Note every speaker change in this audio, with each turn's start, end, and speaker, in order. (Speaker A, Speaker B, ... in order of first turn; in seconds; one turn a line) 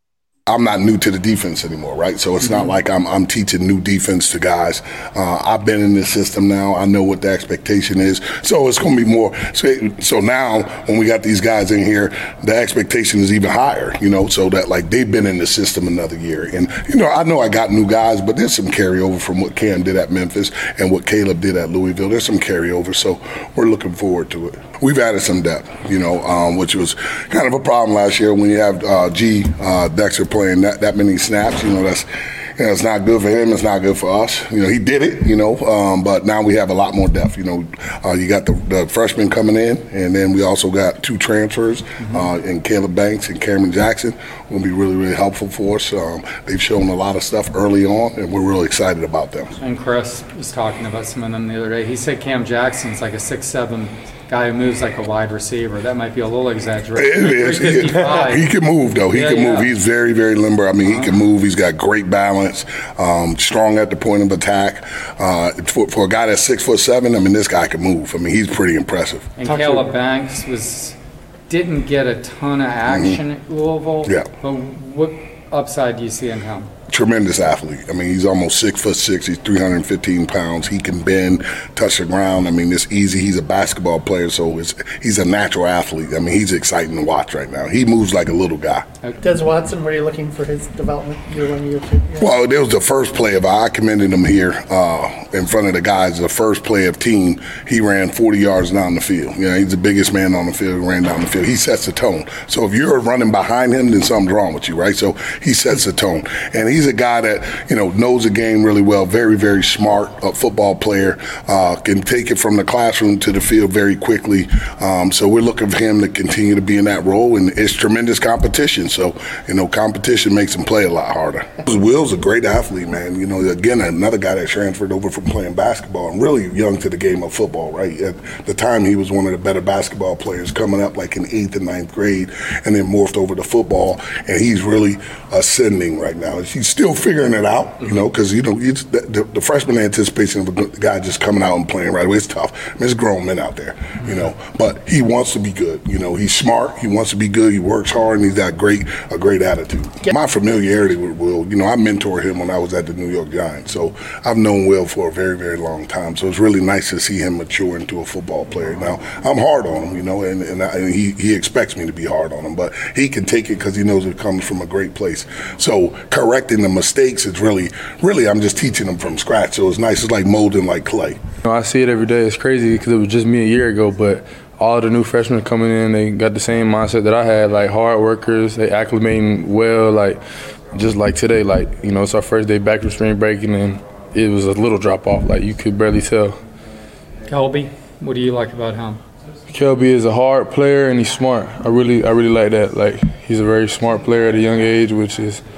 Speaker A: 0.5-49.6
Speaker B: 2.4-2.7
Speaker B: 42.0-42.3
Speaker B: 49.6-58.5
Speaker A: 56.9-69.3
Speaker B: 59.1-59.7
Speaker B: 60.8-61.1
Speaker B: 69.4-76.7
Speaker A: 72.8-73.2
Speaker A: 76.9-88.8
Speaker C: 89.2-92.3
Speaker A: 92.2-171.2
Speaker D: 171.4-180.2
Speaker D: 180.7-186.4
Speaker B: 187.3-189.0
Speaker D: 189.5-195.4